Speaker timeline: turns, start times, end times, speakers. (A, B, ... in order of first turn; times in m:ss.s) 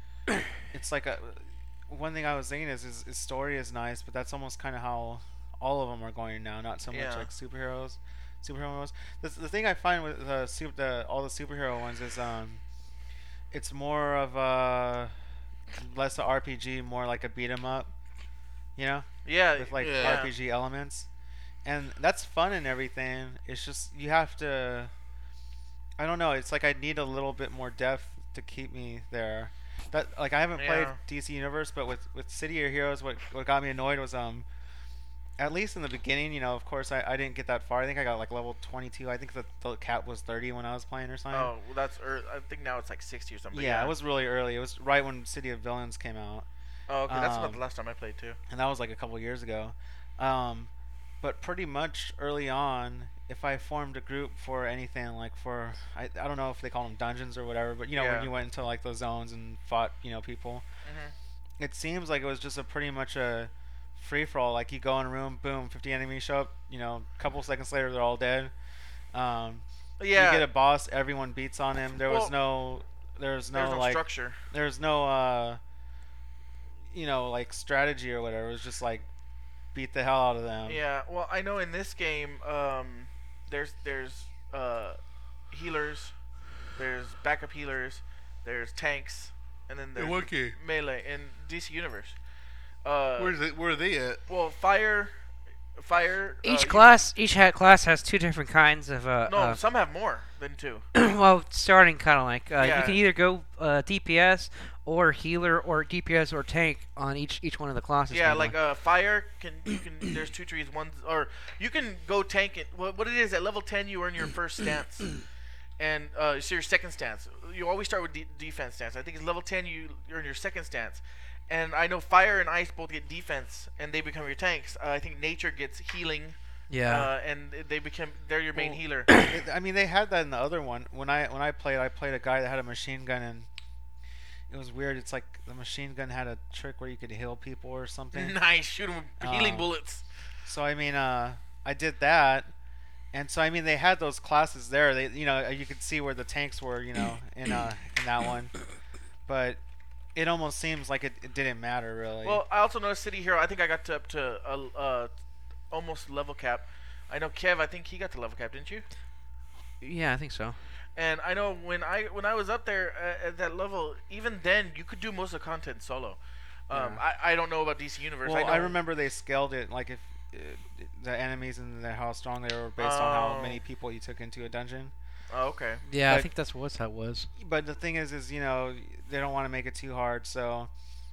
0:00.7-0:12.6 A
0:06.9-0:07.3 B
0:13.5-0:15.1 A
0:15.8-0:17.9 A
0:18.8-0:21.1 A
0:19.2-0:20.3 B
0:19.8-0:20.2 C
0:21.6-0:24.9 A
0:26.0-0:34.4 A
0:30.6-0:31.0 B
0:35.4-0:41.5 A
0:41.3-0:43.9 B
0:43.5-0:46.5 A
0:46.9-0:48.4 B
0:47.1-0:47.6 A
0:48.5-0:50.7 A
0:51.2-1:00.6 A
0:57.9-0:58.3 B
1:00.8-1:01.1 B
1:01.6-1:08.5 A
1:09.1-1:15.6 A
1:10.0-1:10.5 B
1:12.1-1:12.3 B
1:13.5-1:14.4 B
1:16.9-1:19.1 A
1:19.7-1:20.8 A
1:20.6-1:25.0 B
1:25.5-1:26.1 B
1:26.7-1:32.2 B
1:30.0-1:30.6 C
1:32.8-1:33.3 B
1:33.2-1:34.2 C
1:34.3-1:35.1 B
1:35.8-1:37.0 B
1:36.4-1:39.6 D
1:39.3-1:40.9 B
1:40.9-1:48.6 D
1:42.6-1:43.0 B
1:48.1-1:55.2 B
1:55.8-2:09.1 B
2:06.7-2:07.1 D
2:08.5-2:13.5 A
2:14.5-2:18.4 A
2:18.1-2:20.0 B
2:19.2-2:19.7 A
2:20.4-2:22.5 A
2:23.1-2:28.6 A
2:29.2-2:29.6 A
2:30.1-2:32.4 A
2:32.2-2:35.1 B
2:35.7-2:38.8 B
2:39.8-2:40.6 D
2:41.0-2:48.8 B
2:46.7-2:47.0 A
2:48.2-2:54.9 A
2:52.8-2:53.6 B
2:55.3-2:55.8 B
2:55.8-2:57.3 D
2:57.4-3:00.7 A